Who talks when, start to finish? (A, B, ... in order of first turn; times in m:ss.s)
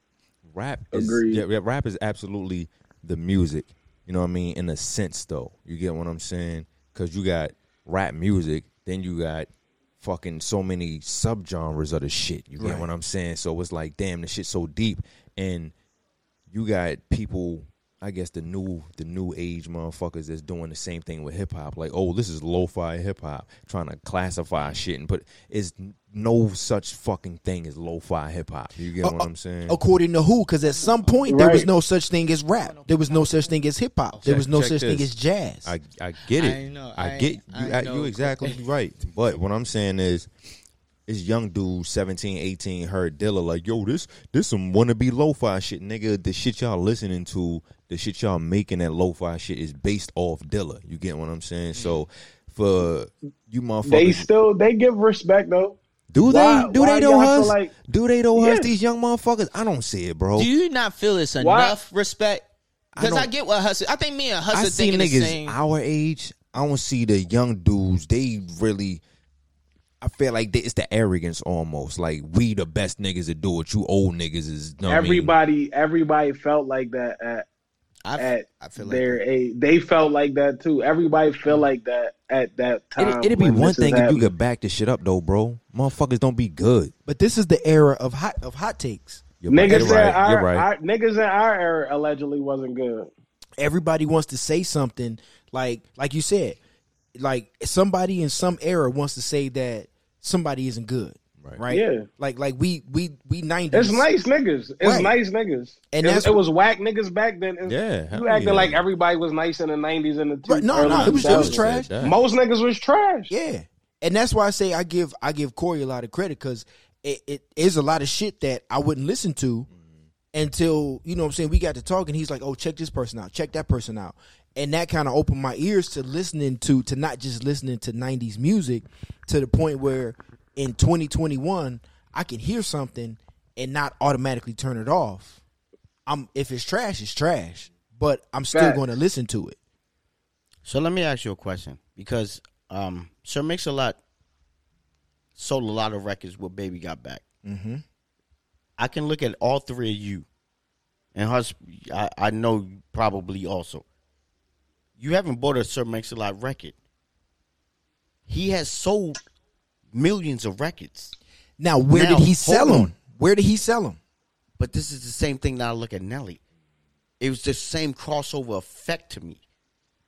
0:00.5-0:09.5 A
0:00.9-0:01.4 B
0:10.0-0:15.7 A
0:12.6-0:12.9 C
0:16.5-0:29.8 A
0:29.0-0:35.7 C
0:31.3-0:31.7 B
0:34.1-0:35.1 D
0:34.3-0:34.6 A
0:35.6-0:40.3 A
0:36.4-0:38.6 D
0:41.1-0:54.3 A
0:53.8-0:57.7 B
0:56.1-1:00.5 A
0:58.3-0:58.7 B
1:00.4-1:02.4 D
1:01.4-1:01.8 B
1:03.0-1:03.3 A
1:03.0-1:05.6 D
1:04.5-1:09.0 A
1:10.0-1:15.4 A
1:14.8-1:17.5 B
1:18.0-1:19.2 D
1:18.2-1:24.3 B
1:23.0-1:26.9 A
1:27.1-1:30.0 C
1:29.4-1:30.7 A
1:29.5-1:33.1 B
1:33.6-1:36.6 C
1:37.2-1:44.1 C
1:41.7-1:42.1 B
1:43.7-1:53.3 B
1:44.8-1:45.1 C
1:45.9-1:46.4 C
1:47.6-1:48.8 A
1:50.4-1:51.9 C
1:50.7-1:52.2 A
1:53.3-1:59.7 C
2:00.3-2:15.4 C
2:16.1-2:19.6 C
2:18.5-2:18.8 B
2:20.6-2:24.0 E
2:25.4-2:27.2 E
2:27.4-2:27.8 C
2:28.8-2:30.3 E
2:31.2-2:33.8 E
2:35.0-2:36.8 E
2:38.3-2:39.2 E
2:39.9-2:41.2 E
2:41.6-2:44.0 C
2:41.9-2:42.9 E
2:44.6-2:46.4 E
2:47.2-2:49.4 E